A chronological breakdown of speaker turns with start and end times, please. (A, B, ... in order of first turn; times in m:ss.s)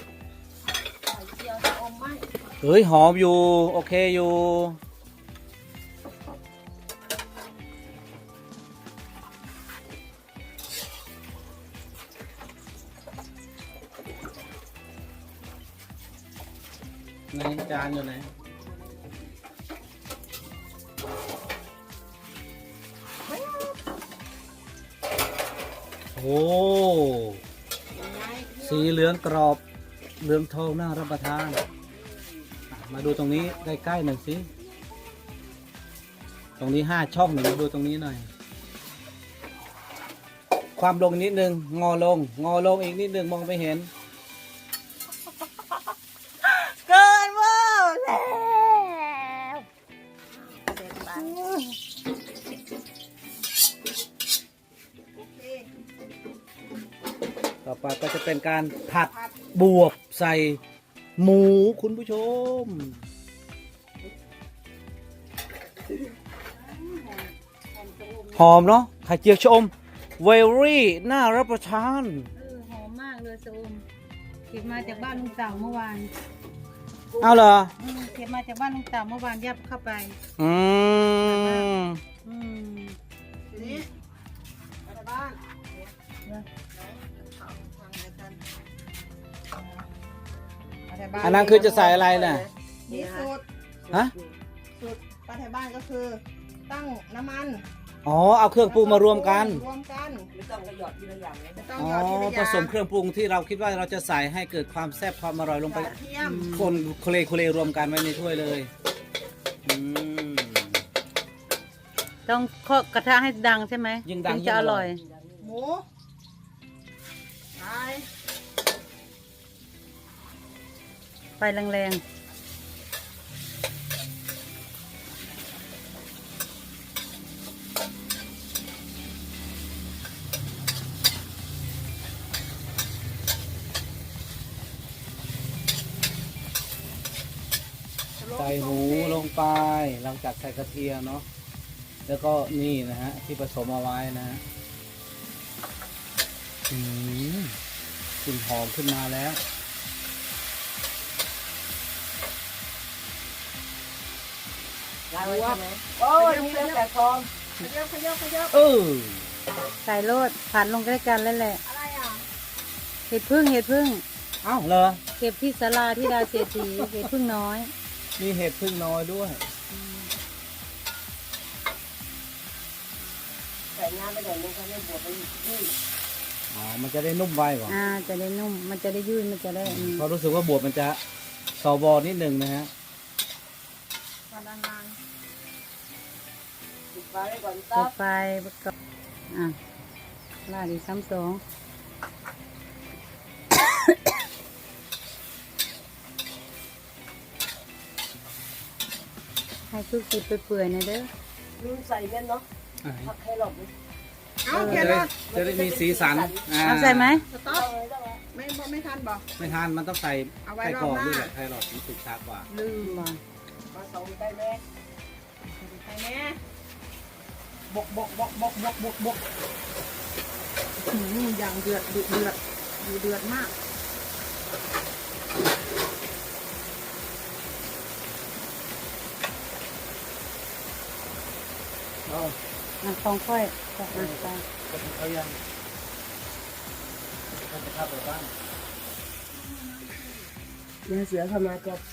0:01.1-0:02.2 A
0:02.6-0:04.8 B
0:17.3-0:18.3 B
0:23.3-0:23.8 A
0:26.2-0:27.4 B
0:27.9-0:29.0 A
0:28.6-0:29.6 B
0:30.2-0:31.6 B
0:31.7-0:32.4 A
0:32.7-0:34.5 B
0:33.0-0:34.0 A
0:34.6-0:35.4 A
0:36.6-0:38.3 B
0:40.8-0:43.9 B
0:46.6-0:48.6 A
0:50.7-0:51.4 C
0:50.7-0:51.6 A
0:55.1-0:55.7 A
0:57.6-1:00.6 B
0:59.1-0:59.5 A
1:01.2-1:03.0 B
1:06.4-1:08.6 D
1:08.3-1:12.3 B
1:12.4-1:13.8 D
1:14.5-1:16.1 D
1:14.5-1:15.7 C
1:17.1-1:17.4 C
1:17.2-1:17.7 B
1:17.8-1:20.2 D
1:20.4-1:22.0 B
1:21.2-1:21.7 D
1:22.2-1:23.0 D
1:23.5-1:23.9 A
1:23.6-1:23.8 D
1:24.8-1:25.4 A
1:26.7-1:28.4 A
1:29.5-1:29.9 A
1:30.9-1:32.0 A
1:31.2-1:33.3 C
1:31.2-1:32.4 B
1:32.9-1:33.4 A
1:33.8-1:34.4 C
1:34.8-1:37.6 A
1:38.0-1:39.6 B
1:38.6-1:40.3 A
1:40.3-1:41.7 C
1:41.6-1:42.8 A
1:41.8-1:48.7 B
1:45.7-1:46.5 A
1:46.2-1:46.7 D
1:49.6-1:50.8 B
1:52.3-1:55.0 D
1:54.0-1:54.9 B
1:55.0-1:55.6 C
1:55.4-1:55.8 A
1:57.6-1:58.1 A
2:01.4-2:02.0 D
2:18.2-2:19.3 A
2:18.4-2:21.3 B
2:22.1-2:24.4 B
2:26.7-2:27.6 B
2:28.2-2:29.4 B
2:35.1-2:37.3 C
2:35.2-2:36.8 A
2:37.6-2:38.5 A
2:38.5-2:39.3 B
2:39.8-2:41.6 D
2:41.6-2:42.2 A
2:43.1-2:44.0 D
2:44.4-2:45.0 B
2:45.2-2:47.7 D
2:46.8-2:47.1 B
2:48.2-2:49.4 B
2:49.7-2:50.1 D
2:53.7-2:55.7 C
2:56.5-2:57.8 B
2:57.7-3:00.1 D
2:59.6-3:01.0 B
3:01.6-3:02.7 B
3:04.3-3:05.0 A
3:06.9-3:07.9 C
3:07.7-3:08.7 D
3:09.3-3:09.6 D
3:10.5-3:11.4 D
3:19.7-3:21.1 D
3:21.6-3:22.5 C
3:22.8-3:23.1 B
3:23.0-3:23.7 C
3:24.4-3:25.2 A
3:24.5-3:25.0 D
3:24.5-3:27.3 B
3:24.9-3:26.5 C
3:26.6-3:27.2 D
3:27.3-3:27.7 A
3:27.4-3:28.2 C
3:28.3-3:29.5 A
3:29.4-3:32.5 B
3:30.4-3:31.3 A
3:32.5-3:33.0 A
3:32.8-3:33.2 D
3:33.7-3:34.6 C
3:35.6-3:36.4 A
3:37.7-3:39.2 B
3:38.5-3:38.9 A
3:40.8-3:43.5 A
3:52.1-3:52.4 C
3:52.8-3:54.4 D
3:53.9-3:55.4 B
3:57.5-3:58.3 B
3:59.3-4:00.3 A
4:00.9-4:01.8 C